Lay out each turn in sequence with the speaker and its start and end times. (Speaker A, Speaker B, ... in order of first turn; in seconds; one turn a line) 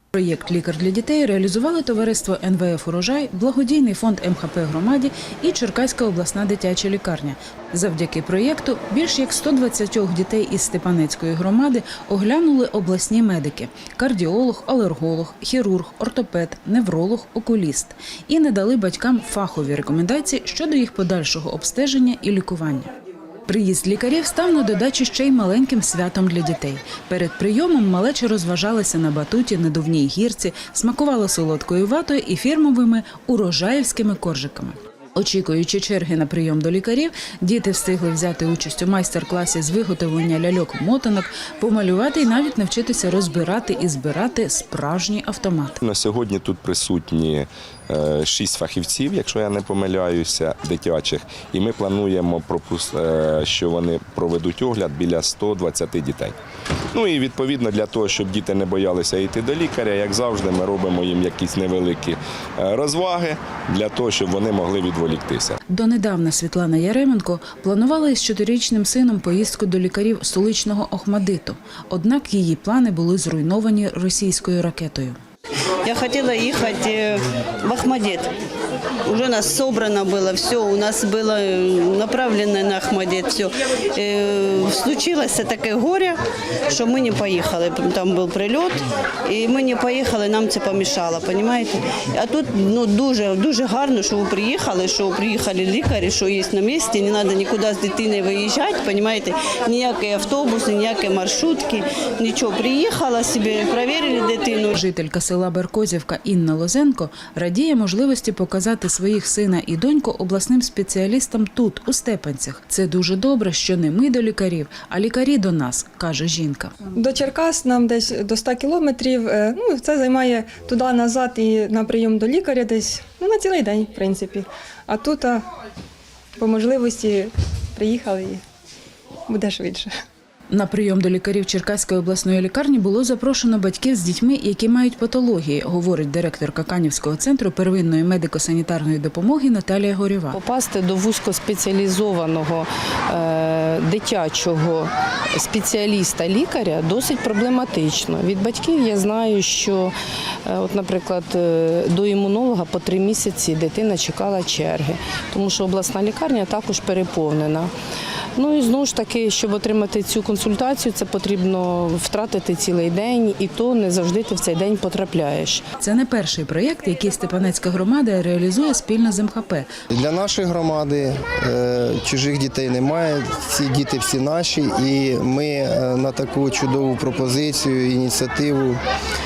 Speaker A: 0.1-22.9
Speaker A: 23.5-45.8
Speaker B: 45.8-56.4
Speaker B: 56.9-65.6
Speaker A: 65.7-75.2
Speaker C: 75.8-78.3
Speaker C: 79.1-86.2
Speaker C: 86.7-104.7
Speaker A: 104.7-116.8
Speaker D: 117.0-125.4
Speaker D: 126.4-128.4
Speaker D: 129.3-129.9
Speaker A: 130.5-140.4
Speaker E: 140.3-149.9
Speaker E: 150.5-157.7
Speaker E: 158.4-165.6
Speaker A: 165.8-169.7
Speaker F: 169.9-178.8